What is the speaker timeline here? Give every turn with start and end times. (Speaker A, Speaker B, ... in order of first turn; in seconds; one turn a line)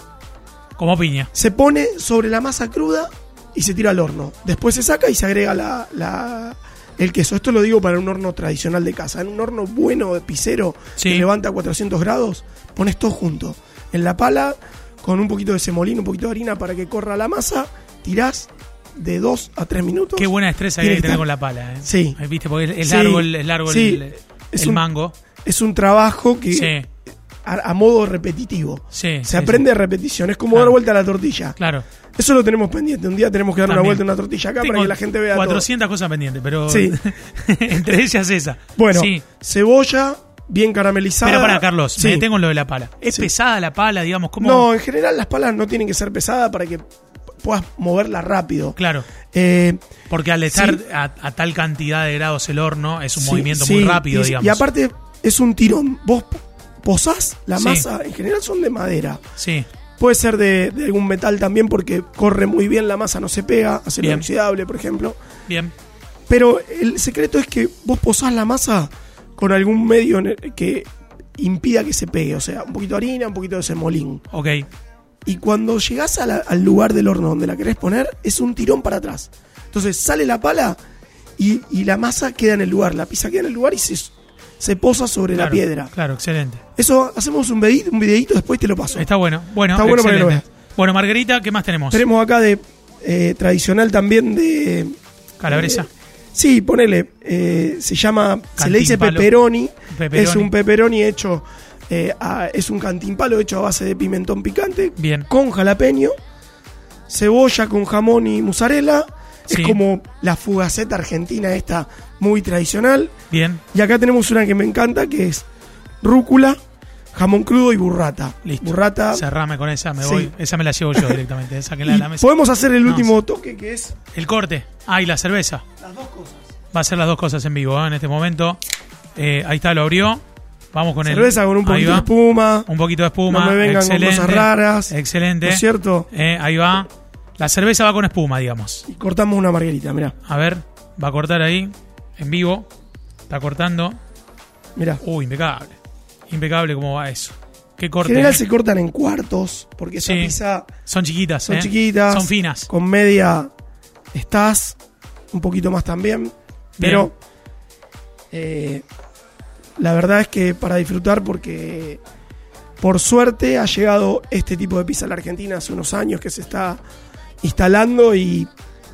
Speaker A: 0.8-1.3
Speaker B: 1.3-21.2
Speaker A: 11.0-11.3
Speaker A: 20.1-25.1
Speaker B: 21.8-22.2
Speaker B: 22.8-24.8
Speaker B: 25.4-26.8
Speaker A: 26.5-26.9
Speaker B: 27.4-31.6
Speaker A: 28.9-29.6
Speaker A: 30.5-30.8
Speaker A: 31.6-31.8
Speaker B: 32.1-35.7
Speaker A: 33.6-34.0
Speaker A: 34.6-39.2
Speaker B: 36.7-37.0
Speaker B: 38.8-42.3
Speaker A: 41.2-44.7
Speaker B: 44.4-46.8
Speaker B: 47.4-49.8
Speaker A: 48.8-49.0
Speaker A: 50.1-54.6
Speaker B: 50.5-50.8
Speaker B: 53.1-59.2
Speaker A: 57.6-57.9
Speaker A: 59.4-59.7
Speaker B: 60.0-65.2
Speaker A: 64.0-64.3
Speaker A: 65.5-65.7
Speaker B: 66.3-74.2
Speaker A: 74.3-74.7
Speaker B: 75.2-80.8
Speaker B: 81.4-85.9
Speaker A: 85.3-86.6
Speaker B: 86.8-89.1
Speaker A: 88.9-92.0
Speaker B: 89.7-90.5
Speaker B: 91.9-94.9
Speaker A: 95.4-95.9
Speaker B: 95.5-106.1
Speaker A: 98.6-99.3
Speaker A: 99.9-100.5
Speaker A: 105.0-105.3
Speaker B: 107.1-113.1
Speaker A: 109.5-109.8
Speaker A: 113.3-113.6
Speaker B: 113.7-115.4
Speaker B: 116.0-116.6
Speaker B: 117.1-119.2
Speaker A: 118.4-122.3
Speaker B: 120.0-120.3
Speaker B: 121.8-123.9
Speaker A: 122.8-123.1
Speaker A: 124.1-125.6
Speaker B: 125.8-126.4
Speaker A: 126.7-128.6
Speaker A: 129.2-130.2
Speaker A: 130.7-132.1
Speaker B: 131.0-132.7
Speaker A: 132.7-136.9
Speaker B: 133.3-136.1
Speaker A: 137.4-138.8
Speaker B: 138.9-140.1
Speaker A: 140.2-142.7
Speaker A: 143.3-144.0
Speaker B: 144.8-145.0
Speaker A: 145.0-145.8
Speaker A: 146.3-148.4
Speaker B: 148.0-150.7
Speaker A: 150.0-152.7
Speaker B: 151.5-153.5
Speaker B: 154.1-154.8
Speaker B: 155.3-157.1
Speaker A: 156.8-157.1
Speaker B: 158.3-158.8
Speaker B: 159.8-162.0
Speaker B: 162.8-166.8
Speaker B: 167.4-168.5